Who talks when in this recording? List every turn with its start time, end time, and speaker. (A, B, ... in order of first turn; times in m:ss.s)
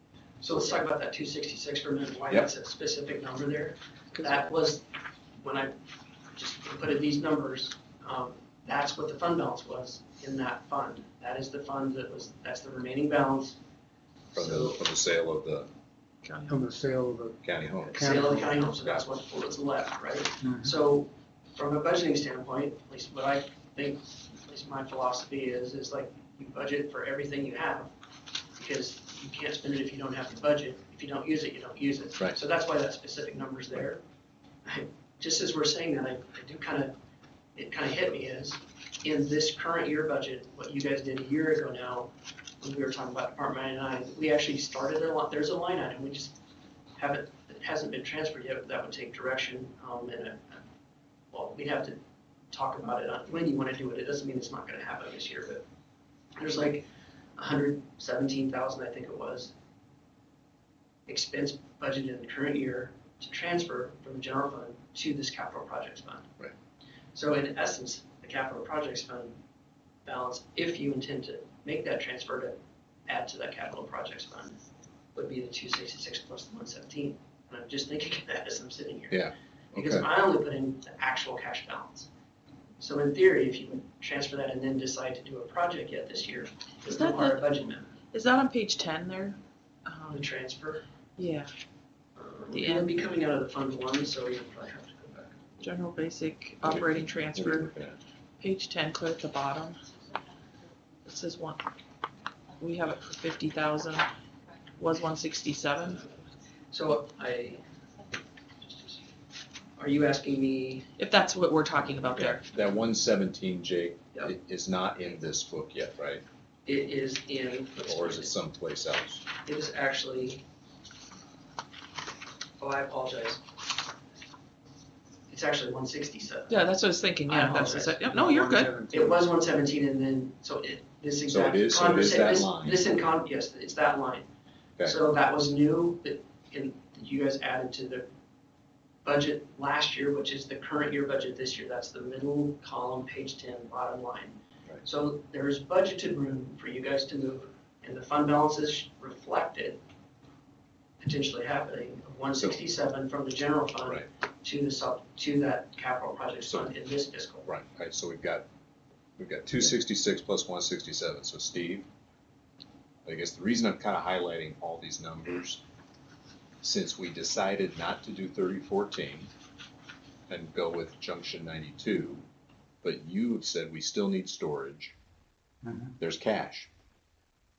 0:00.4-0:04.8 A
0:05.4-0:05.7 A
0:06.3-0:13.6 A
0:14.3-0:14.8 A
0:14.3-0:15.7 B
0:16.2-0:16.6 C
0:16.5-0:17.4 D
0:17.4-0:19.0 B
0:17.9-0:27.9 A
0:17.9-0:18.5 D
0:20.4-0:20.7 D
0:28.6-0:34.0 A
0:34.6-0:36.9 A
0:37.6-0:42.1 A
0:42.6-0:46.3 A
0:47.0-0:50.6 A
0:51.3-0:52.0 A
0:52.5-0:55.6 A
0:56.4-0:59.5 A
1:01.1-1:06.3 A
1:07.1-1:09.4 A
1:10.0-1:14.6 A
1:15.1-1:19.2 A
1:19.1-1:20.0 B
1:19.7-1:22.1 A
1:22.8-1:27.9 A
1:26.9-1:27.4 C
1:28.1-1:30.2 C
1:30.1-1:30.8 A
1:31.2-1:31.5 C
1:32.2-1:35.4 A
1:32.5-1:32.9 C
1:35.6-1:37.7 C
1:36.6-1:38.0 B
1:38.4-1:39.8 C
1:41.0-1:41.6 C
1:42.6-1:44.1 C
1:44.8-1:46.0 C
1:46.7-1:47.6 A
1:49.8-1:50.9 A
1:51.0-1:52.4 C
1:52.1-1:56.2 B
1:56.6-1:58.3 A
1:57.8-1:59.2 B
1:59.4-2:00.4 A
2:02.6-2:03.4 A
2:05.3-2:06.6 A
2:06.5-2:08.7 C
2:07.3-2:08.0 A
2:08.1-2:09.2 D
2:08.9-2:14.2 A
2:11.3-2:12.8 B
2:14.8-2:18.0 A
2:19.0-2:29.8 A
2:31.0-2:37.5 A
2:36.5-2:36.7 B
2:37.4-2:38.4 B
2:39.2-2:41.9 B
2:43.0-2:45.6 B
2:46.6-2:49.3 B
2:50.3-2:52.2 B
2:52.8-2:54.9 B
2:55.6-2:55.9 D
2:56.0-2:56.7 B